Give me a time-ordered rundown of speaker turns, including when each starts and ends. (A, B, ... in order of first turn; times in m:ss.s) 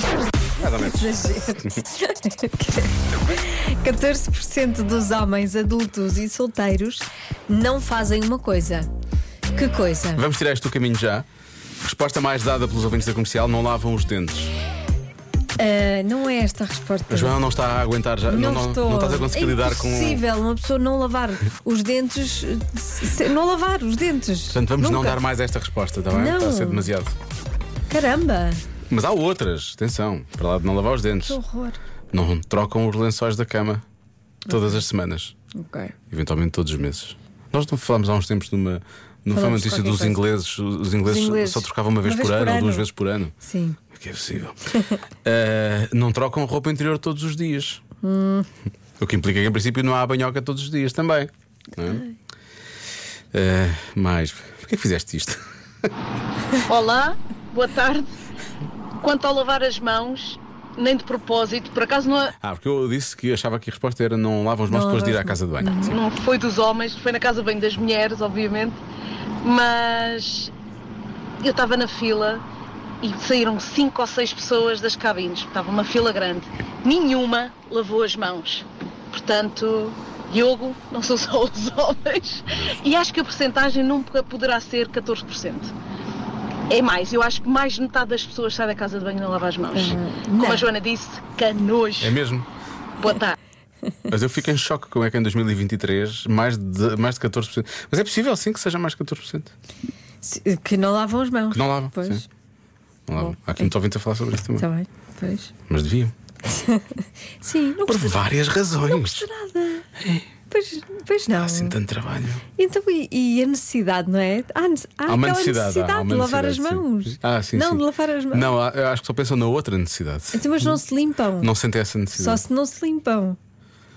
0:00.6-0:01.8 A
0:00.7-0:08.9 B
0:09.5-0:10.2 B
0:10.2-0:11.3 A
0:11.8-0:14.5 A
0:15.6-0:17.4 B
0:17.1-0:20.2 A
0:18.2-0:25.2 B
0:24.5-0:27.1 A
0:26.1-0:26.9 B
0:27.9-0:28.6 B
0:28.9-0:31.4 A
0:31.2-0:31.8 B
0:32.1-0:33.8 A
0:34.5-0:35.3 A
0:34.5-0:34.8 B
0:35.6-0:36.0 B
0:36.1-0:43.4 A
0:39.3-0:40.2 B
0:41.0-0:42.9 B
0:43.4-0:43.8 B
0:43.9-0:44.6 A
0:44.8-0:45.0 B
0:45.2-0:47.8 A
0:48.0-0:48.5 B
0:49.0-0:52.1 A
0:51.8-0:52.1 B
0:53.3-0:55.4 A
0:56.6-0:58.1 C
0:59.0-1:02.3 C
1:02.4-1:06.0 A
1:04.7-1:06.0 B
1:05.8-1:08.8 C
1:09.4-1:10.5 C
1:11.4-1:12.4 C
1:13.0-1:25.7 C
1:22.5-1:22.8 A
1:26.7-1:32.2 C
1:29.7-1:30.7 B
1:32.0-1:32.5 A
1:33.0-1:33.4 C
1:34.1-1:39.5 A
1:40.2-1:42.3 B
1:41.5-1:42.2 A
1:43.1-1:44.7 A
1:43.2-1:43.7 B
1:44.6-1:45.5 B
1:45.7-1:46.1 A
1:46.5-1:48.2 B
1:47.8-1:49.3 A
1:48.8-1:49.9 B
1:50.0-1:50.3 A
1:50.5-1:51.8 B
1:51.3-1:52.4 A
1:52.6-1:58.5 B
1:55.1-2:00.8 A
2:00.3-2:01.5 B
2:01.4-2:02.4 A
2:02.1-2:03.4 B